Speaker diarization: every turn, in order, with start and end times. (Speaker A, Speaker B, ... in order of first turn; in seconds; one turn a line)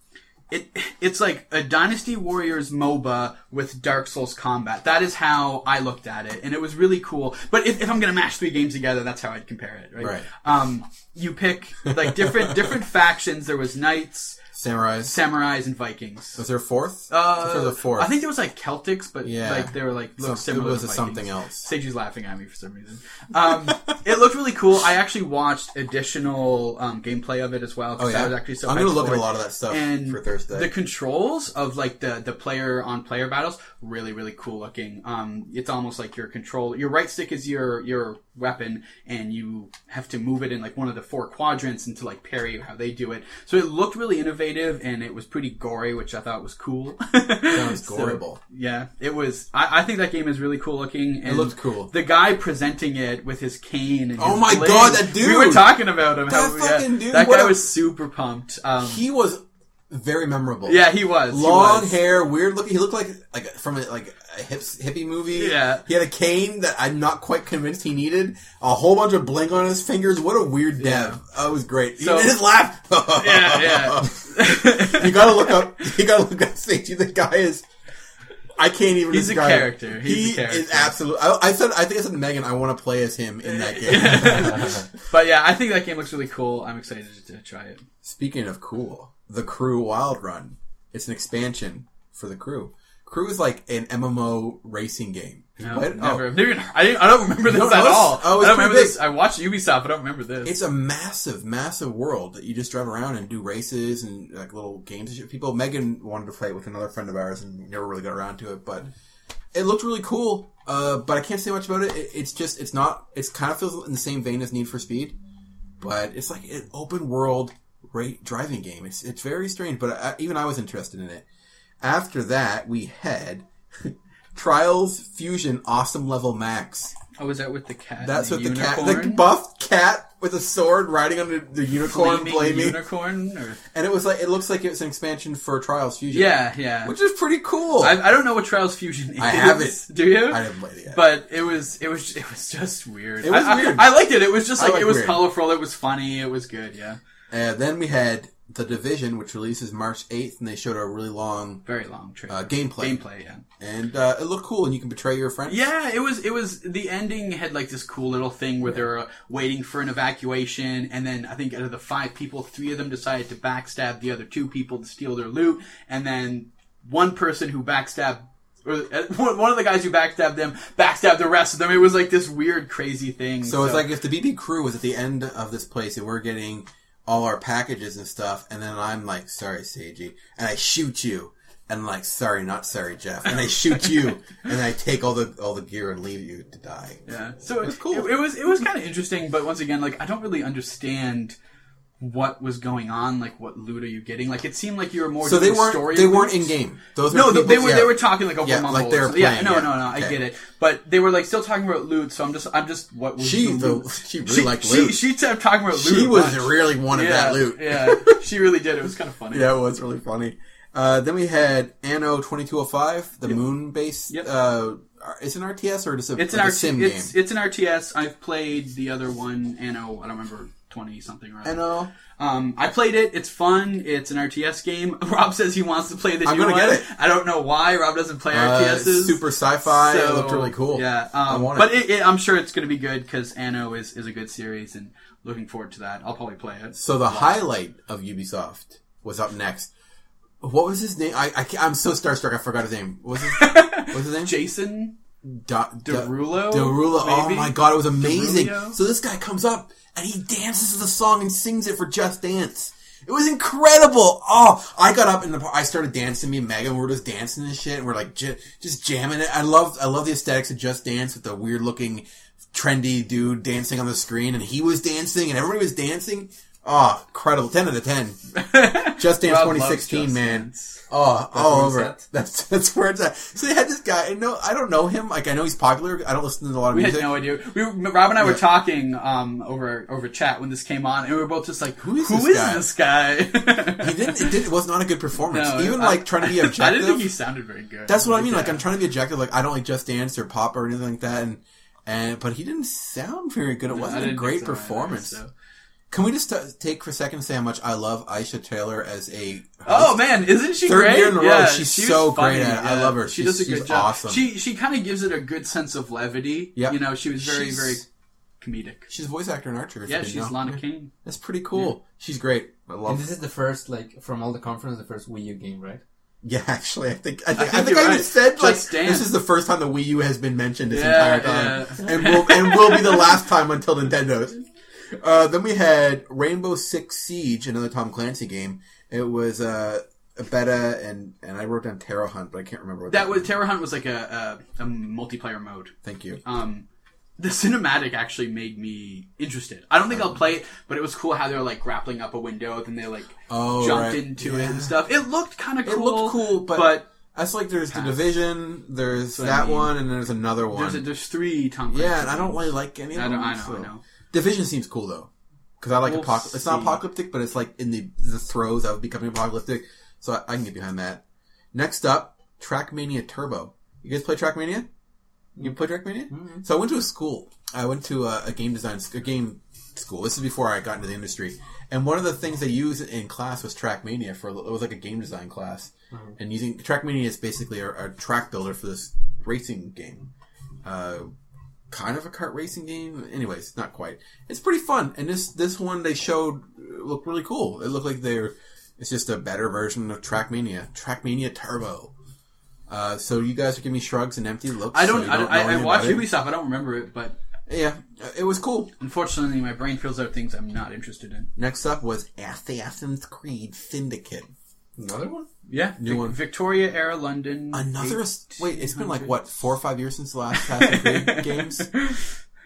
Speaker A: 0.5-14.4
Speaker B: 10.0-10.3
Speaker B: 11.9-12.3
Speaker B: 14.6-15.2
Speaker A: 15.0-16.4
Speaker B: 16.4-18.1
Speaker A: 17.1-59.0
Speaker B: 19.2-21.7
Speaker B: 28.0-30.7
Speaker B: 47.5-48.4
Speaker B: 51.2-51.9
Speaker B: 54.2-57.6
Speaker B: 58.8-77.6
Speaker A: 60.7-62.0
Speaker A: 65.3-65.8
Speaker A: 70.8-71.2
Speaker A: 72.0-72.4
Speaker A: 73.2-75.7
Speaker B: 78.6-84.9
Speaker A: 79.1-81.0
Speaker A: 83.4-87.8
Speaker B: 88.0-96.3
Speaker A: 95.6-100.5
Speaker B: 97.4-99.0
Speaker B: 100.5-108.9
Speaker B: 109.5-115.2
Speaker B: 115.8-121.3
Speaker B: 121.8-127.0
Speaker A: 127.2-129.3
Speaker B: 128.0-132.8
Speaker A: 131.8-133.6
Speaker B: 133.7-138.0
Speaker A: 136.1-137.0
Speaker A: 137.8-147.0
Speaker B: 139.2-141.0
Speaker B: 143.2-144.0
Speaker B: 144.6-145.2
Speaker B: 147.3-151.6
Speaker A: 151.7-153.4
Speaker B: 152.3-153.0
Speaker B: 153.6-155.7
Speaker A: 155.5-173.9
Speaker B: 173.4-187.0
Speaker A: 187.1-191.4
Speaker B: 187.6-188.1
Speaker A: 192.0-196.6
Speaker B: 195.2-200.2
Speaker A: 197.1-209.5
Speaker B: 203.2-205.1
Speaker B: 205.7-208.2
Speaker B: 209.3-217.1
Speaker A: 216.2-237.4
Speaker B: 221.4-221.9
Speaker B: 226.2-226.9
Speaker B: 228.3-231.7
Speaker B: 236.7-239.7
Speaker B: 240.4-244.3
Speaker A: 243.3-245.0
Speaker B: 245.3-268.2
Speaker A: 245.8-248.8
Speaker A: 268.4-270.8
Speaker B: 268.9-277.1
Speaker C: 271.3-272.0
Speaker A: 276.7-284.4
Speaker B: 281.8-282.7
Speaker B: 283.8-287.1
Speaker A: 285.3-288.7
Speaker B: 287.9-295.2
Speaker A: 293.7-295.3
Speaker B: 295.9-300.1
Speaker A: 299.7-307.9
Speaker B: 300.6-304.3
Speaker B: 306.6-307.8
Speaker A: 308.4-308.9
Speaker B: 308.9-313.1
Speaker A: 309.9-310.9
Speaker C: 312.9-315.8
Speaker B: 316.2-333.3
Speaker A: 317.3-319.1
Speaker A: 320.7-323.2
Speaker A: 332.9-336.6
Speaker B: 335.8-336.2
Speaker A: 337.2-346.9
Speaker B: 343.3-344.8
Speaker B: 345.6-350.8
Speaker A: 347.7-348.1
Speaker A: 349.1-349.7
Speaker A: 350.5-353.8
Speaker B: 351.7-355.1
Speaker B: 355.6-364.7
Speaker A: 355.9-356.8
Speaker B: 365.4-380.1
Speaker C: 366.1-366.4
Speaker B: 380.6-381.1
Speaker B: 381.7-391.9
Speaker B: 392.7-396.1
Speaker A: 394.7-397.2
Speaker B: 397.5-398.7
Speaker A: 398.8-401.3
Speaker B: 401.4-404.3
Speaker C: 404.8-405.3
Speaker A: 405.5-409.1
Speaker B: 405.8-406.2
Speaker B: 407.5-411.7
Speaker A: 410.3-412.1